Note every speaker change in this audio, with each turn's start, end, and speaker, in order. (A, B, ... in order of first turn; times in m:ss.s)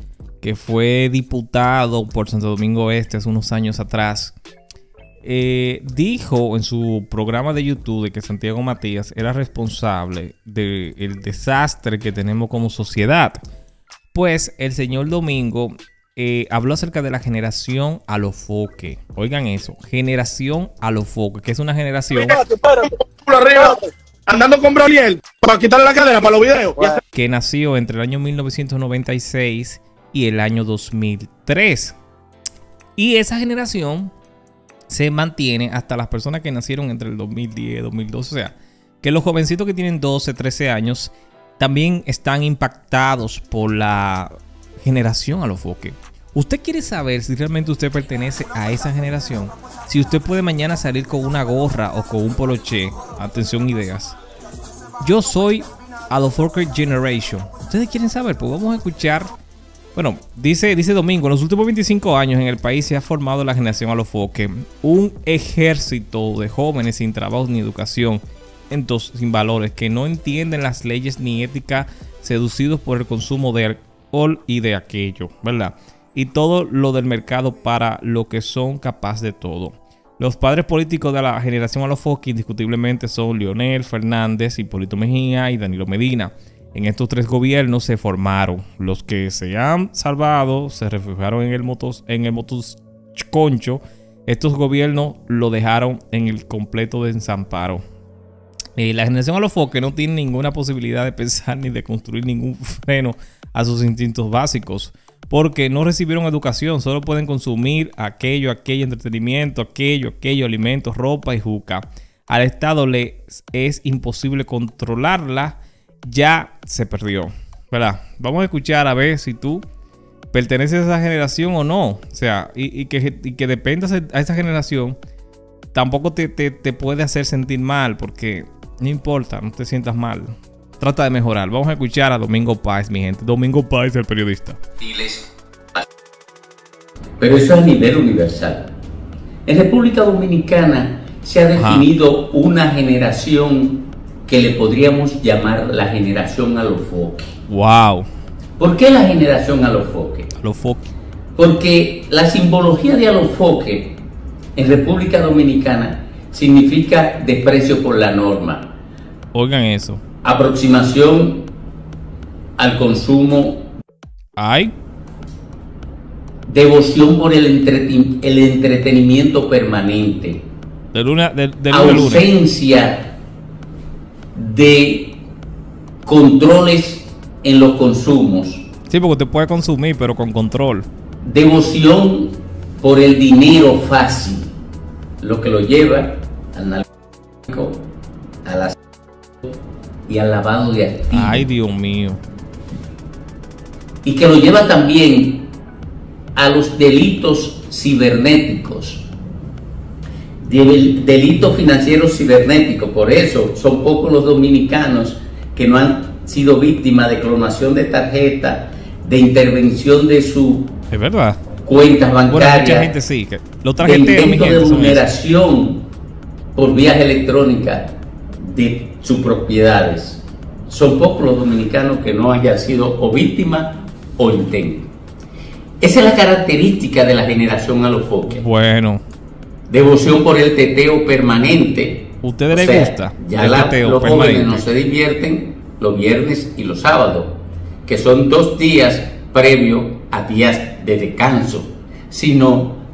0:00.4-0:04.4 A
0:05.2-0:13.4 A
0:14.1-0:22.4 A
0:22.2-0:27.0 B
0:27.1-0:32.0 A
0:33.0-0:34.1 A
0:34.9-0:44.3 A
0:44.8-0:54.2 A
0:55.0-0:59.3 A
0:59.9-1:37.8 A
1:38.8-1:59.6 A
2:00.3-2:05.0 A
2:05.7-2:14.6 A
2:14.8-2:15.2 C
2:17.2-2:18.6 C
2:19.4-2:27.3 C
2:21.6-2:21.9 A
2:27.5-2:28.1 A
2:28.6-2:30.3 C
2:30.4-2:30.9 A
2:31.4-2:34.0 C
2:34.6-2:38.6 C
2:39.3-2:40.0 A
2:40.2-2:41.4 C
2:42.6-2:43.6 C
2:44.4-2:44.7 A
2:46.5-2:50.4 C
2:50.9-2:52.3 A
2:51.7-2:53.1 C
2:54.3-2:55.2 C
2:56.0-2:58.6 C
2:58.9-3:00.9 A
3:01.2-3:04.5 C
3:05.2-3:06.8 C
3:07.5-3:07.8 C
3:08.4-3:08.8 C
3:10.1-3:11.5 C
3:11.1-3:12.2 A
3:14.0-3:15.5 C
3:16.4-3:19.1 C
3:20.4-3:30.7 C
3:30.9-3:31.4 A
3:31.6-3:32.9 C
3:32.3-3:35.1 A
3:33.8-3:35.8 C
3:36.6-3:37.8 C
3:38.4-3:44.9 C
3:45.8-3:48.4 C
3:48.3-3:49.0 A
3:49.7-3:57.3 C
3:52.2-3:54.6 A
3:57.8-4:02.8 C